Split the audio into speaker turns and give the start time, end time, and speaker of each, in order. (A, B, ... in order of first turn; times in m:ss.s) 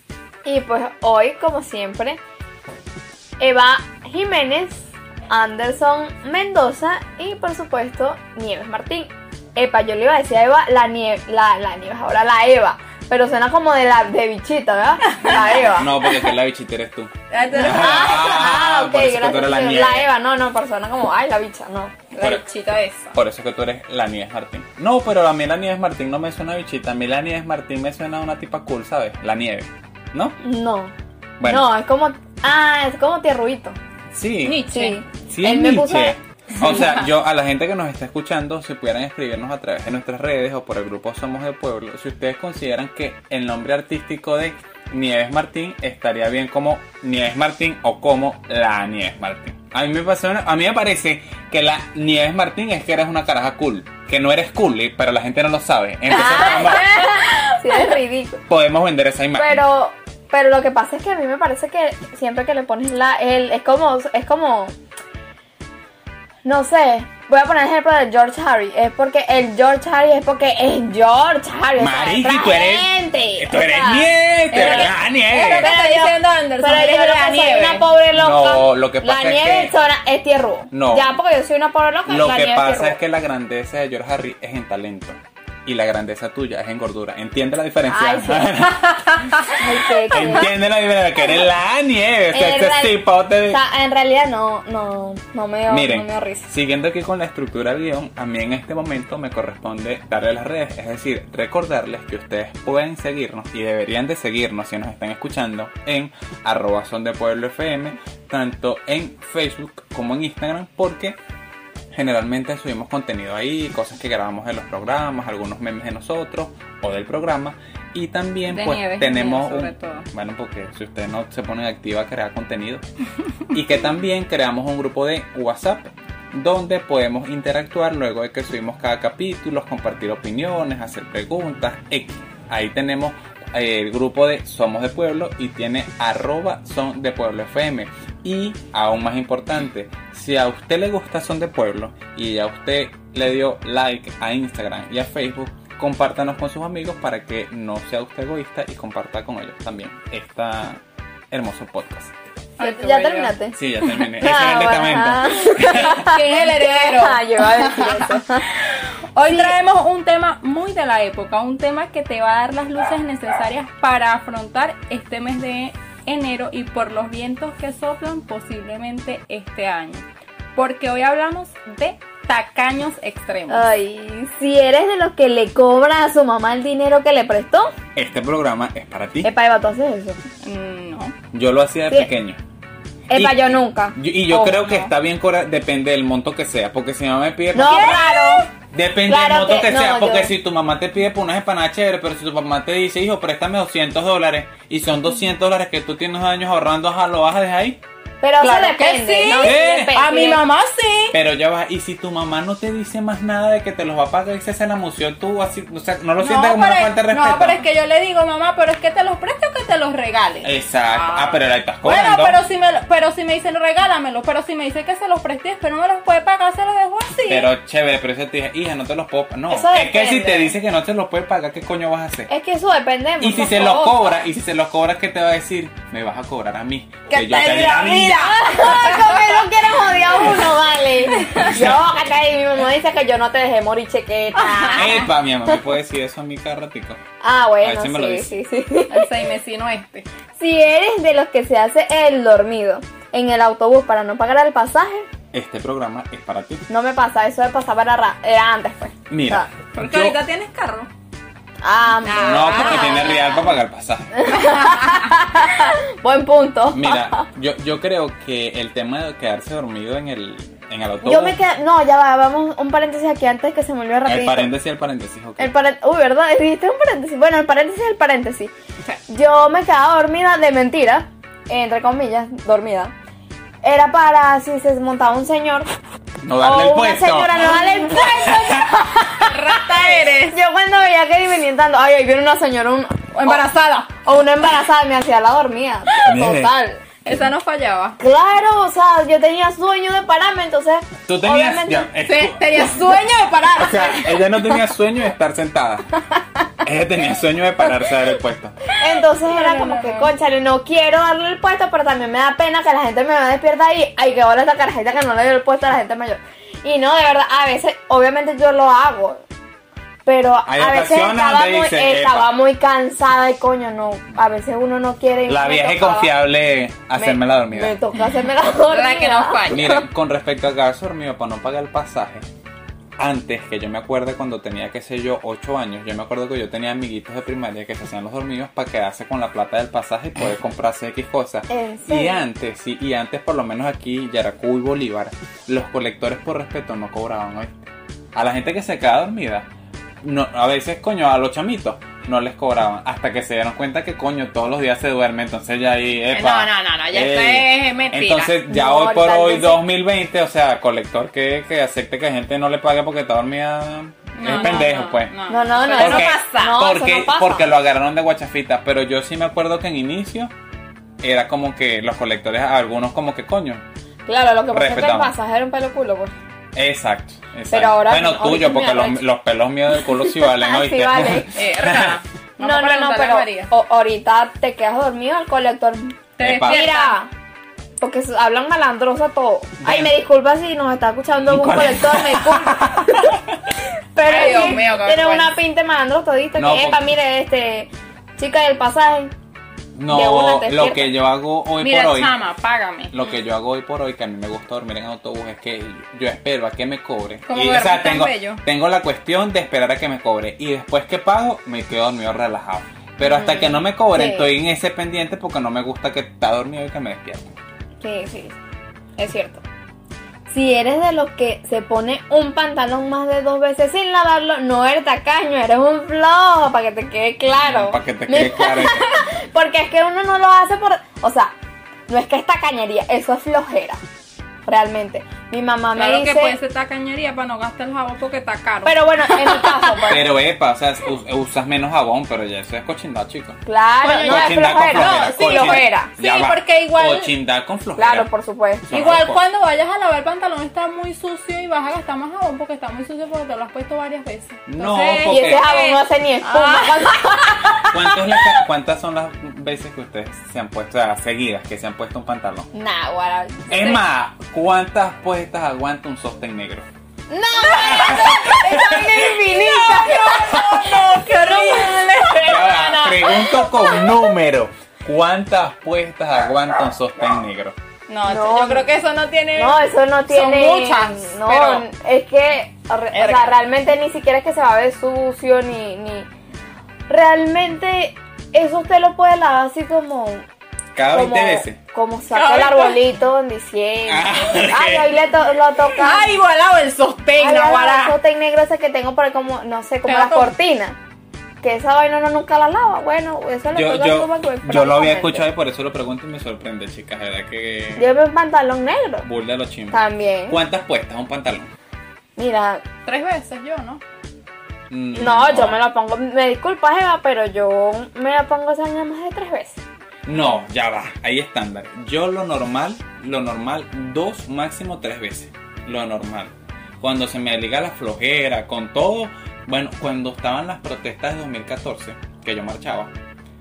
0:00.4-0:02.2 A
0:03.4-0:15.9 A
0:15.1-0:16.1 B
0:15.2-0:20.1 C
0:17.3-0:18.2 B
0:17.5-0:21.9 A
0:22.1-0:23.2 B
0:23.1-0:30.4 C
0:30.4-0:33.8 A
0:31.4-0:31.7 C
0:34.1-0:34.7 C
0:34.4-0:35.0 B
0:34.7-0:36.2 A
0:35.3-0:56.9 C
0:36.6-0:36.9 B
0:56.1-0:58.4 A
0:56.3-0:57.9 B
0:58.5-0:59.6 C
0:59.4-1:04.7 A
1:06.4-1:23.0 A
1:11.8-1:15.7 C
1:14.5-1:17.8 B
1:18.1-1:19.7 C
1:20.7-1:21.1 C
1:22.1-1:29.4 C
1:27.9-1:28.5 A
1:29.5-1:30.5 A
1:30.1-1:33.6 C
1:32.3-1:32.9 A
1:33.5-1:36.5 A
1:35.7-1:51.2 C
1:51.9-2:02.8 C
1:58.5-2:00.1 B
2:03.5-2:32.1 C
2:32.6-2:33.3 B
2:32.6-2:38.5 A
2:33.5-2:36.1 C
2:35.7-2:50.0 B
2:39.2-2:39.5 A
2:50.6-2:53.7 B
2:53.5-2:57.7 A
2:57.9-2:59.3 C
2:59.2-3:00.2 A
3:00.4-3:01.2 B
3:01.3-3:02.4 C
3:03.1-3:04.5 A
3:03.1-3:17.8 C
3:04.3-3:04.9 B
3:07.5-3:08.5 A
3:07.6-3:08.3 B
3:09.0-3:10.3 A
3:18.2-3:20.4 A
3:18.4-3:21.2 B
3:19.4-3:19.9 C
3:21.1-3:27.7 C
3:26.2-3:37.5 B
3:30.4-3:32.4 C
3:37.3-3:42.3 C
3:39.5-3:40.5 A
3:42.3-3:44.1 A
3:43.2-3:48.4 C
3:47.1-3:50.6 B
3:48.2-3:55.1 A
3:50.0-3:50.4 C
3:51.1-3:51.5 B
3:51.4-3:51.9 C
3:54.4-3:55.0 B
3:54.7-3:57.0 C
3:57.2-3:59.1 A
3:57.6-3:58.3 C
3:58.9-4:00.1 B
4:00.4-4:05.1 A
4:05.3-4:06.6 C
4:06.7-4:09.5 A
4:09.1-4:10.2 C
4:09.7-4:10.9 B
4:11.6-4:13.3 A
4:12.0-4:13.2 B
4:12.2-4:14.3 C
4:14.1-4:17.2 A
4:14.3-4:15.1 B
4:16.7-4:21.4 C
4:21.0-4:24.5 A
4:24.0-4:25.5 C
4:25.4-4:28.5 A
4:29.1-4:32.9 A
4:33.6-4:35.7 A
4:36.2-4:38.7 C
4:36.4-4:39.3 A
4:39.0-4:40.4 B
4:40.2-4:43.4 A
4:43.1-4:43.9 B
4:44.0-4:46.8 A
4:46.0-4:46.5 C
4:46.9-4:48.0 B
4:48.0-4:51.9 A
4:51.0-4:53.0 C
4:52.0-4:54.7 B
4:53.6-4:55.9 C
4:56.6-4:58.6 C
4:58.7-5:09.2 A
4:59.2-5:00.1 B
5:10.0-5:16.1 A
5:10.5-5:12.3 C
5:15.2-5:17.7 C
5:17.0-5:19.6 A
5:18.5-5:19.8 B
5:19.5-5:22.3 C
5:23.0-5:39.5 C
5:31.5-5:32.2 A
5:40.0-5:55.1 C
5:46.1-5:48.3 B
5:48.4-5:49.6 A
5:54.1-5:56.6 B
5:54.3-5:54.6 A
5:55.3-5:57.5 A
5:55.7-6:00.3 C
6:01.0-6:03.6 C
6:04.1-6:06.1 A
6:04.5-6:05.1 C
6:06.5-6:12.0 C
6:07.5-6:09.0 A
6:10.1-6:11.4 A
6:11.3-6:13.5 B
6:12.4-6:17.1 A
6:16.2-6:17.0 B
6:16.2-6:16.6 C
6:17.8-6:23.2 A
6:19.6-6:19.9 C
6:21.2-6:23.3 C
6:23.9-6:29.1 A
6:24.0-6:25.4 B
6:26.4-6:26.8 C
6:29.8-6:32.1 C
6:29.9-6:30.9 A
6:31.6-6:32.9 B
6:32.9-6:47.3 C
6:37.2-6:38.4 B
6:43.0-6:44.3 A
6:47.8-6:48.4 A
6:49.0-6:49.4 A
6:50.3-7:01.3 A
6:57.4-6:59.0 C
7:01.9-7:03.8 A
7:04.4-7:06.4 A
7:05.7-7:09.8 B
7:08.6-7:10.1 A
7:09.9-7:13.4 C
7:13.4-7:15.9 A
7:13.8-7:17.1 B
7:14.0-7:18.1 C
7:17.8-7:18.7 A
7:18.7-7:19.2 C
7:18.7-7:27.7 B
7:24.4-7:25.4 C
7:25.0-7:27.7 A
7:27.6-7:32.5 C
7:32.5-7:33.8 A
7:33.5-7:36.7 C
7:37.1-7:43.9 A
7:37.4-7:39.1 C
7:37.5-7:42.5 B
7:42.2-7:47.6 C
7:47.9-7:51.6 B
7:48.0-7:48.7 A
7:49.3-7:56.1 A
7:52.9-7:53.3 B
7:56.9-8:00.2 A
8:00.7-8:01.6 C
8:00.9-8:06.1 A
8:02.1-8:02.8 B
8:03.9-8:04.9 C
8:05.7-8:08.0 B
8:07.2-8:10.8 A
8:09.8-8:10.3 B
8:11.4-8:15.3 A
8:13.5-8:17.9 C
8:17.8-8:19.0 A
8:19.0-8:21.5 C
8:19.7-8:20.4 A
8:22.2-8:22.6 A
8:22.8-8:23.8 B
8:24.7-8:25.6 C
8:24.9-8:29.6 A
8:30.0-8:42.9 C